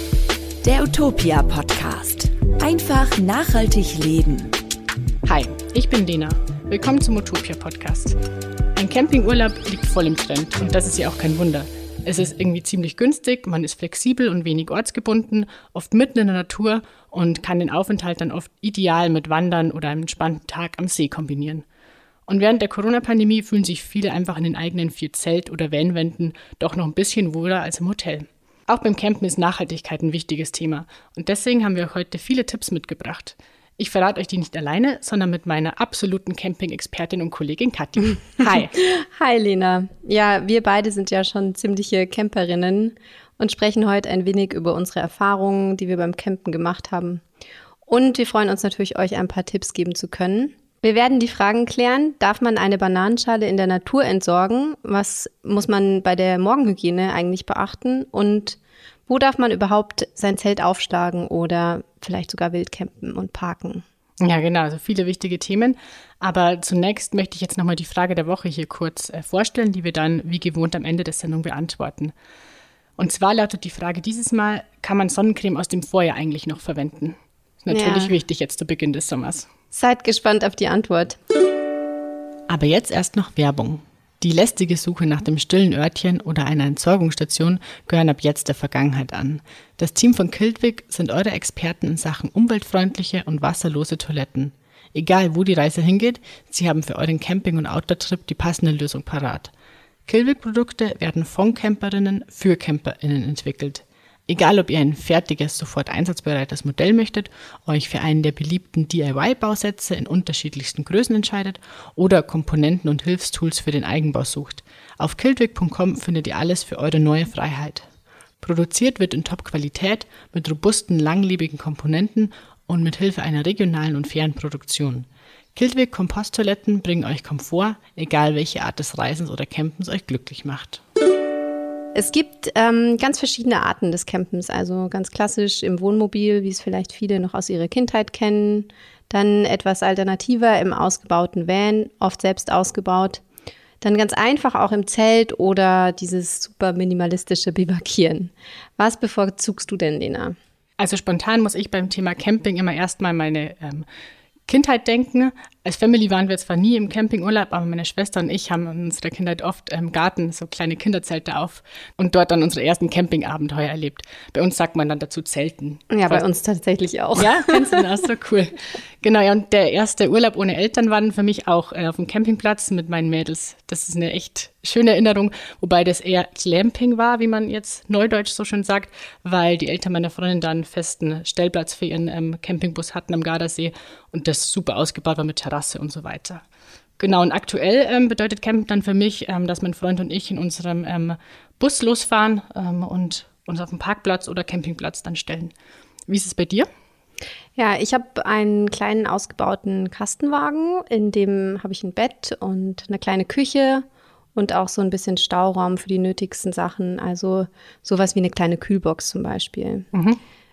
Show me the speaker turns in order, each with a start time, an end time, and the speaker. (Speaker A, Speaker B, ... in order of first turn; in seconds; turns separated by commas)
Speaker A: 0.6-4.5, Speaker B: 5.2-8.2, Speaker B: 8.8-21.6, Speaker B: 22.3-38.7, Speaker C: 38.5-47.2, Speaker C: 47.9-63.8, Speaker B: 64.2-72.1, Speaker B: 73.0-79.5, Speaker C: 77.7-78.1, Speaker C: 79.7-81.2, Speaker B: 82.5-99.5, Speaker B: 100.0-117.8, Speaker B: 118.4-130.8, Speaker C: 131.9-143.2, Speaker C: 143.8-150.3, Speaker B: 150.8-153.8, Speaker B: 154.5-166.2, Speaker C: 165.9-167.8, Speaker B: 167.2-186.4, Speaker B: 187.0-195.5, Speaker B: 196.1-196.7, Speaker C: 197.6-209.9, Speaker B: 209.9-210.2